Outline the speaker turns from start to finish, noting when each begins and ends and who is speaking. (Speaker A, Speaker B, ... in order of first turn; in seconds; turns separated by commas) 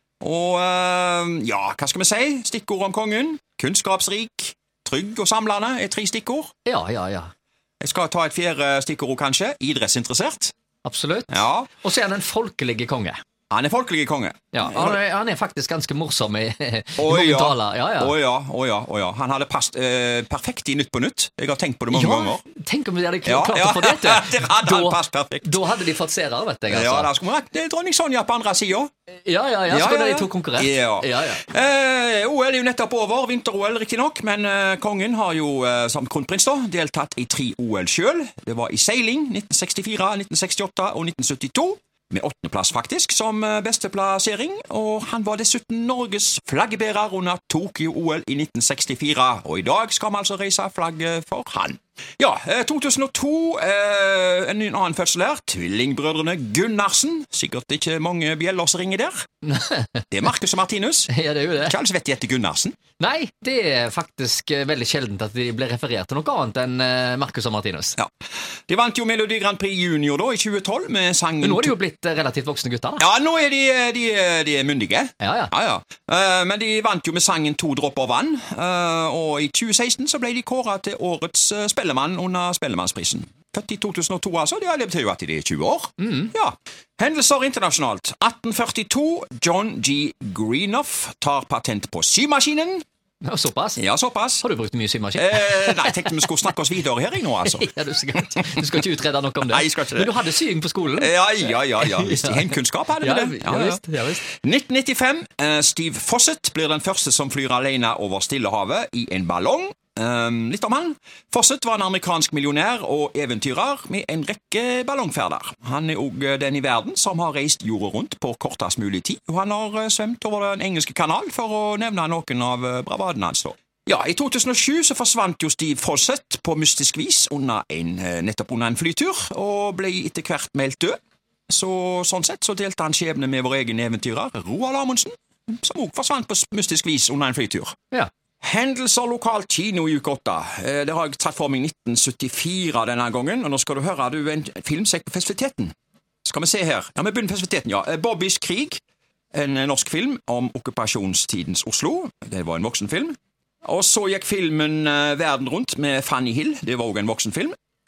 Speaker A: 0.2-6.5, Speaker B: 6.7-7.3, Speaker A: 7.8-10.5, Speaker B: 10.8-13.2, Speaker A: 11.3-11.7, Speaker A: 13.5-15.0, Speaker B: 14.5-18.1, Speaker A: 17.0-22.4, Speaker B: 21.9-27.1, Speaker A: 23.3-25.6, Speaker A: 26.7-28.9, Speaker B: 29.3-31.4, Speaker A: 29.7-59.3, Speaker B: 59.5-60.0, Speaker A: 60.1-62.8, Speaker B: 61.1-61.8, Speaker B: 63.0-68.0, Speaker A: 68.7-71.8, Speaker B: 71.4-73.0, Speaker A: 73.0-92.8, Speaker B: 75.2-75.5, Speaker B: 86.0-86.3, Speaker B: 93.2-93.8, Speaker A: 93.8-94.5, Speaker B: 94.4-96.3, Speaker A: 95.2-97.7, Speaker B: 97.4-101.1, Speaker A: 98.3-98.8, Speaker A: 99.4-100.2, Speaker A: 101.0-131.0, Speaker B: 101.8-104.2, Speaker A: 131.5-137.8, Speaker A: 138.4-145.7, Speaker A: 146.2-148.8, Speaker A: 149.3-157.6